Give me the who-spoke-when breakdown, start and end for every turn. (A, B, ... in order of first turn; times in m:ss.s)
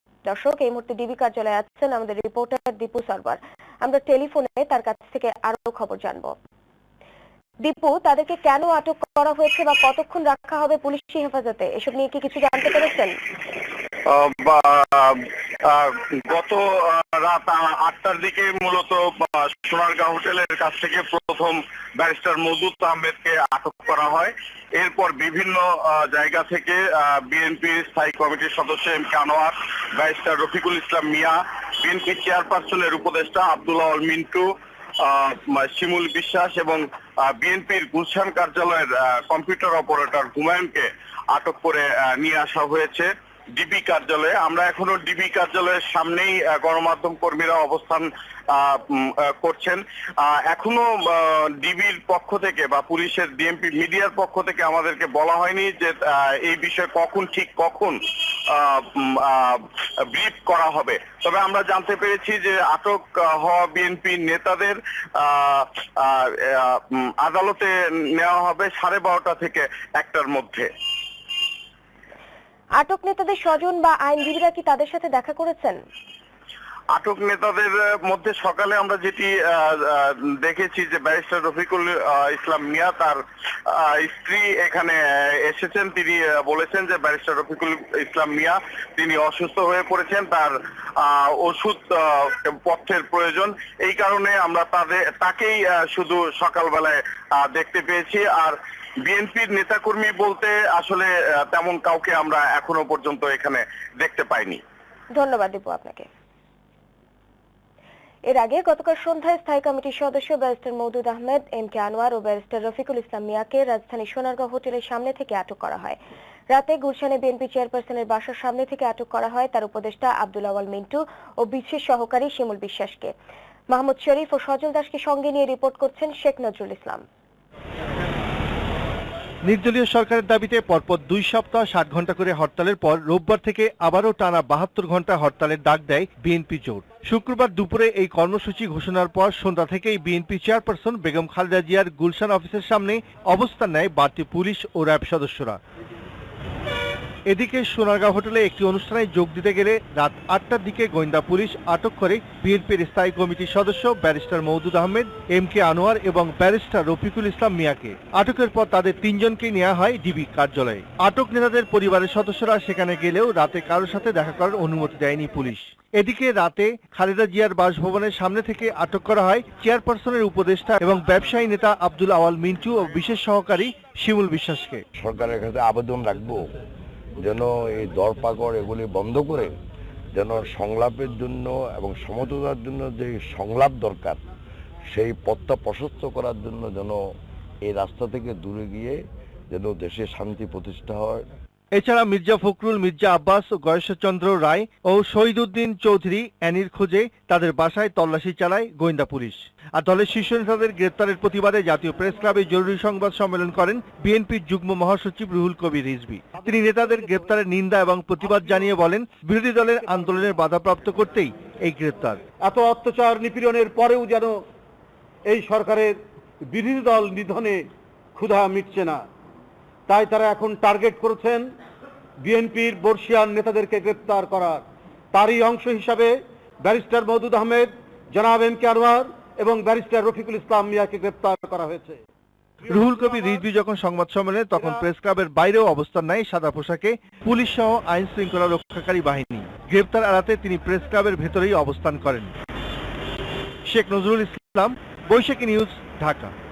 0:00.2-0:06.3 A
0:07.6-0:13.2 A
0:14.0-0:34.5 B
0:35.0-1:10.7 B
1:12.8-1:15.8 A
1:16.9-1:44.6 B
1:45.1-1:46.1 A
1:48.3-1:56.0 A
1:56.5-2:03.1 A
2:03.7-2:07.0 A
2:09.4-2:25.6 C
2:27.3-2:54.8 C
2:55.0-2:56.5 D
2:57.2-2:59.5 D
3:00.1-3:04.2 D
3:04.9-3:07.0 D
3:07.6-3:09.0 D
3:09.5-3:11.2 D
3:11.7-3:32.2 C
3:26.3-3:27.3 E
3:32.4-3:34.4 E
3:35.2-3:39.0 E
3:39.9-3:41.5 E
3:42.2-3:52.0 E
3:52.7-3:53.4 E
3:52.7-4:02.3 C
3:54.6-3:54.8 E
4:03.7-4:06.3 C